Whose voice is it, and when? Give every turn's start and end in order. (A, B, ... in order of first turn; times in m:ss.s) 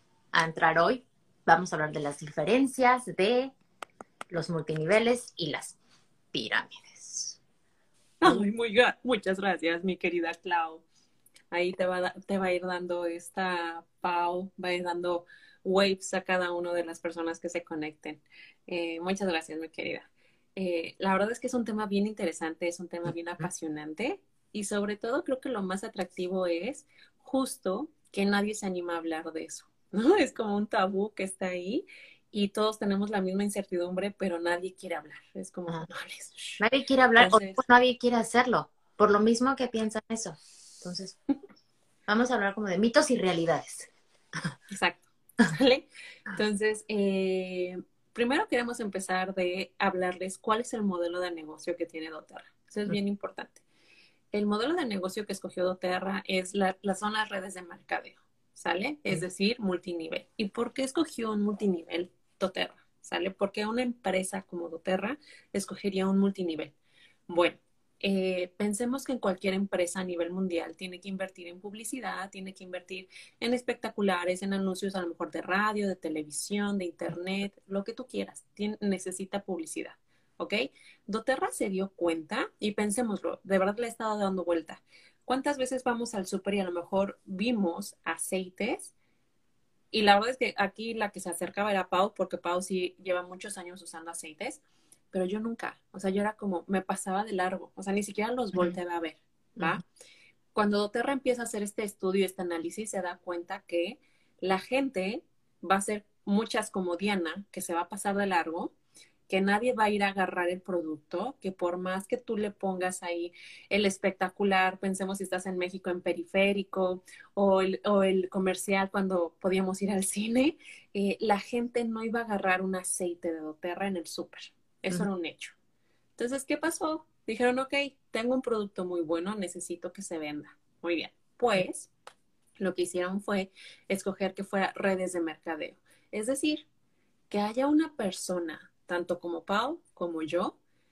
0:00.3-0:03.5 A
0:04.3-0:05.8 A
0:06.3-0:07.4 A
0:08.2-0:10.8 B
0:11.5-0:36.6 B
0:36.6-0:41.2 A
0:37.2-0:37.6 B
0:42.1-0:43.9 A
0:44.7-0:53.6 B
0:54.3-1:06.7 B
1:07.3-1:28.9 B
1:29.9-1:34.6 B
1:35.1-1:39.8 B
1:40.5-1:48.7 B
1:49.3-2:05.5 B
2:06.2-2:11.9 B
2:12.6-2:16.6 B
2:17.3-2:20.6 B